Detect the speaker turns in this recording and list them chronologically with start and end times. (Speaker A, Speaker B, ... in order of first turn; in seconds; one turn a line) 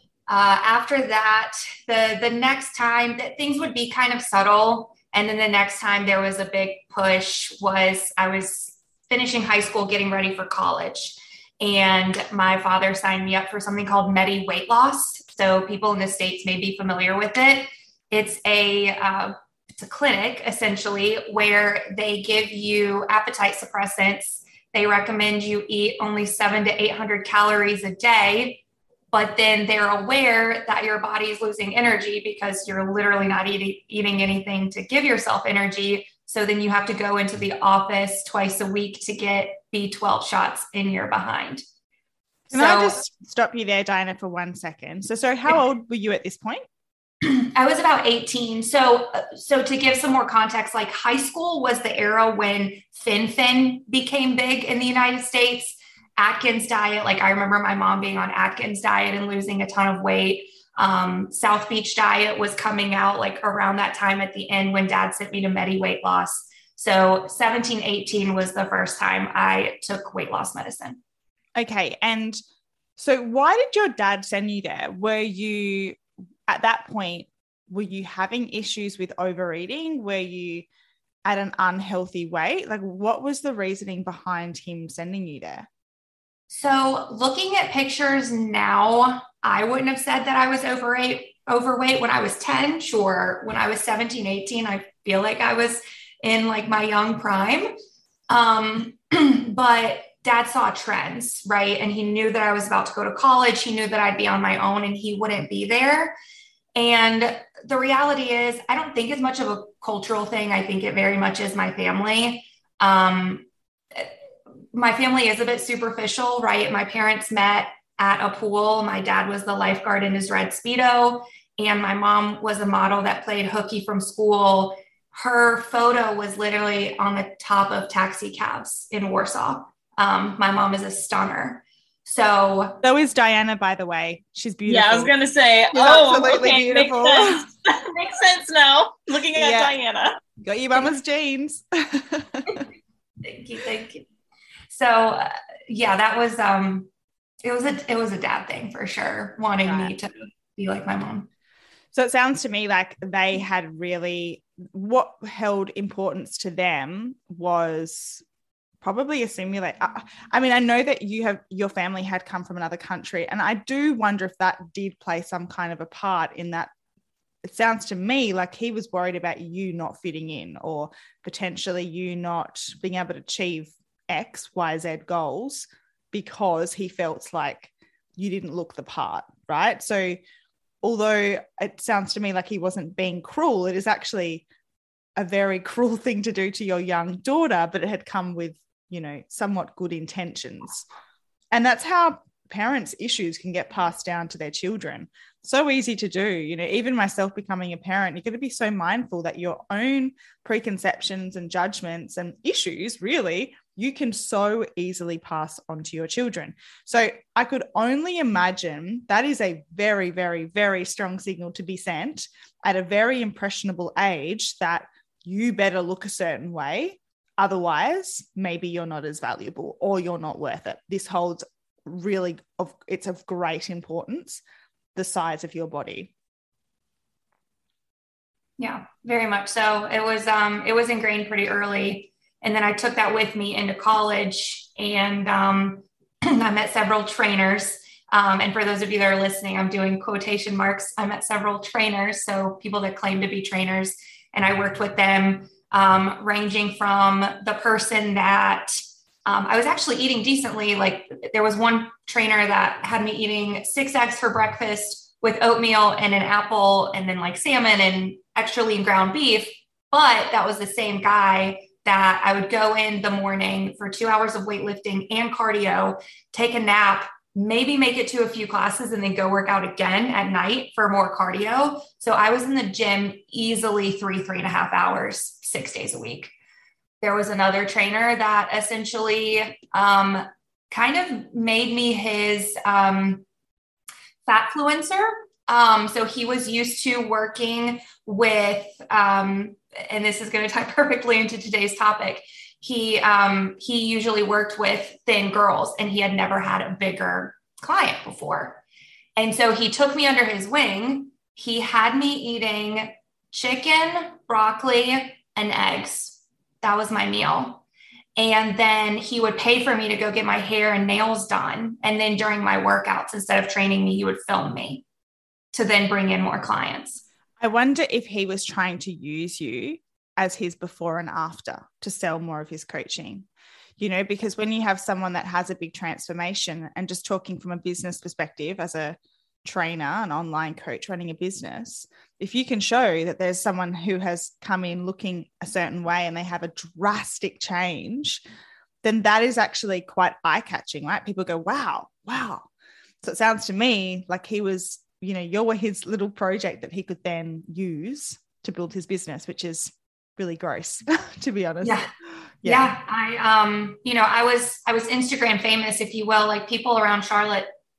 Speaker A: 0.3-41.6
Speaker A: 42.5-43.0
Speaker B: 42.5-46.6
Speaker A: 47.2-71.0
Speaker B: 71.6-72.4
Speaker B: 73.0-80.7
Speaker B: 81.2-85.7
Speaker A: 86.5-97.7
Speaker A: 98.3-106.2
Speaker A: 106.8-114.1
Speaker A: 114.7-132.8
Speaker B: 132.8-135.1
Speaker C: 134.7-140.2
Speaker B: 135.7-137.4
Speaker B: 139.3-139.7
Speaker B: 140.4-142.7
Speaker A: 143.2-144.1
Speaker A: 144.7-146.9
Speaker A: 147.4-151.3
Speaker B: 149.6-149.9
Speaker B: 151.9-158.2
Speaker B: 158.8-166.7
Speaker B: 167.4-180.2
Speaker B: 180.8-184.5
Speaker B: 185.2-190.8
Speaker B: 191.5-224.4
Speaker B: 224.9-226.1
Speaker A: 228.6-276.3
Speaker A: 277.0-283.2
Speaker A: 284.2-298.6
Speaker A: 299.2-307.6
Speaker A: 308.2-314.8
Speaker A: 315.5-317.0
Speaker B: 317.4-323.3
Speaker B: 323.8-338.2
Speaker B: 338.8-342.5
Speaker B: 343.0-351.9
Speaker A: 351.6-351.9
Speaker B: 352.4-352.7
Speaker A: 352.4-357.5